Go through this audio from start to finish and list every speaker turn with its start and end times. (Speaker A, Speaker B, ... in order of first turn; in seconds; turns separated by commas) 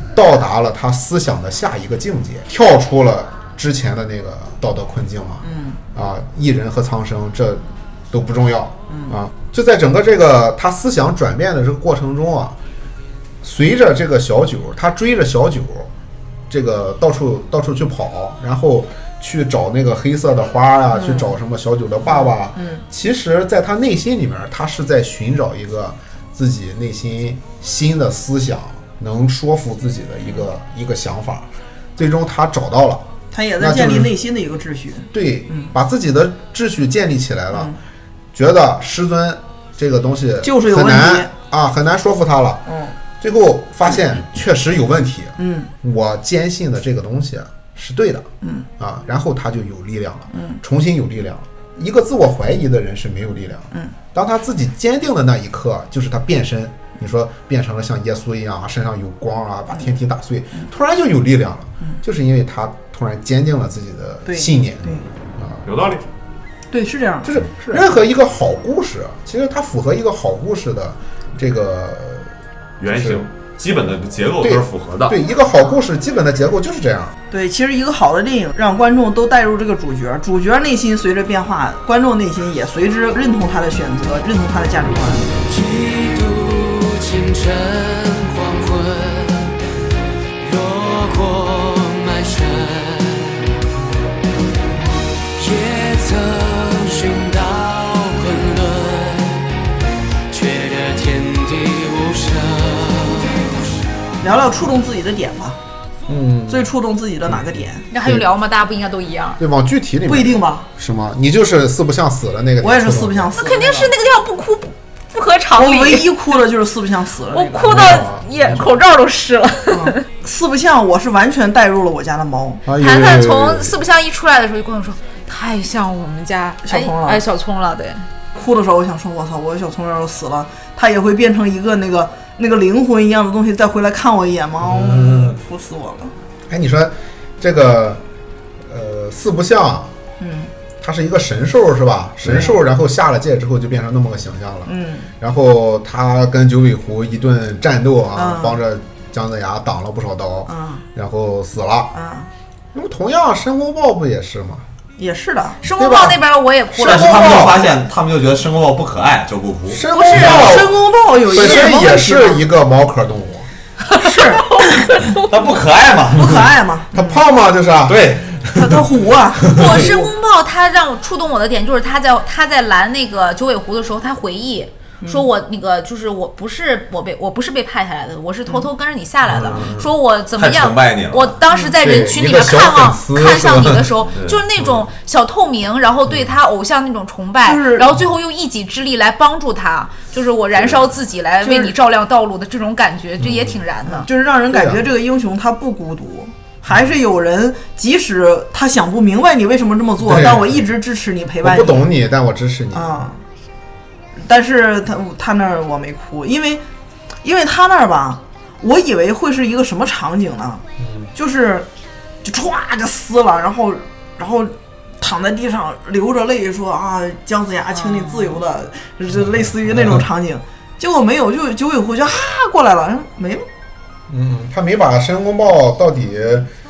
Speaker A: 0.1-12.6, Speaker B: 5.4-5.8, Speaker B: 8.9-9.2, Speaker A: 13.4-15.9, Speaker A: 16.5-34.1, Speaker B: 20.9-21.3, Speaker B: 22.1-22.8, Speaker B: 33.3-35.7, Speaker A: 35.1-37.7, Speaker A: 38.3-42.6, Speaker B: 40.4-41.3, Speaker B: 42.7-42.9, Speaker A: 43.2-65.6, Speaker B: 45.4-45.7, Speaker B: 48.4-48.7, Speaker B: 50.3-50.6, Speaker B: 64.2-65.0, Speaker C: 65.6-66.0, Speaker B: 66.7-67.3, Speaker A: 67.2-72.3, Speaker C: 72.8-75.2, Speaker A: 72.9-73.2, Speaker A: 74.4-77.1, Speaker B: 77.3-85.3, Speaker D: 85.5-89.3, Speaker D: 90.4-93.0, Speaker D: 95.4-99.2, Speaker D: 100.3-103.1, Speaker B: 104.2-105.6, Speaker A: 106.1-106.7, Speaker B: 106.5-107.8, Speaker E: 107.9-109.4, Speaker A: 108.0-108.3, Speaker A: 109.4-113.3, Speaker B: 110.1-110.7, Speaker B: 112.6-113.9, Speaker E: 113.3-116.2, Speaker B: 115.5-118.0, Speaker E: 117.3-120.0, Speaker A: 117.6-118.7, Speaker B: 119.7-122.6, Speaker A: 122.7-123.8, Speaker E: 122.7-128.1, Speaker B: 126.6-127.2, Speaker B: 128.3-136.1, Speaker A: 134.7-135.3, Speaker A: 136.5-138.0, Speaker A: 138.7-139.9, Speaker B: 140.2-140.5, Speaker A: 140.8-151.9, Speaker B: 144.7-145.1, Speaker B: 148.1-148.6, Speaker B: 150.5-150.8, Speaker B: 151.9-152.3, Speaker A: 152.7-154.7, Speaker B: 155.0-155.6, Speaker E: 155.6-157.4, Speaker A: 155.7-156.2, Speaker A: 156.7-157.6, Speaker C: 156.8-160.6, Speaker A: 159.7-160.7, Speaker E: 159.9-160.4, Speaker B: 160.2-162.4, Speaker A: 161.3-163.5, Speaker E: 163.9-165.3, Speaker B: 164.0-164.8, Speaker C: 165.3-166.4, Speaker B: 166.1-167.2, Speaker A: 166.9-168.5, Speaker C: 167.9-168.4, Speaker B: 168.5-170.1, Speaker E: 169.5-194.1, Speaker B: 175.0-175.3, Speaker A: 179.3-179.8, Speaker C: 180.3-181.4, Speaker A: 181.8-183.9, Speaker C: 184.1-184.4, Speaker B: 187.4-187.9, Speaker B: 191.4-191.7, Speaker A: 193.2-193.5, Speaker B: 193.8-201.9, Speaker A: 194.5-194.8, Speaker A: 200.0-200.6, Speaker A: 201.4-203.0, Speaker B: 202.7-203.2, Speaker B: 204.2-206.6, Speaker B: 207.2-210.6, Speaker A: 210.8-211.1, Speaker B: 211.1-211.7, Speaker B: 212.2-223.4, Speaker E: 217.8-218.3, Speaker A: 219.7-220.0, Speaker A: 224.1-226.5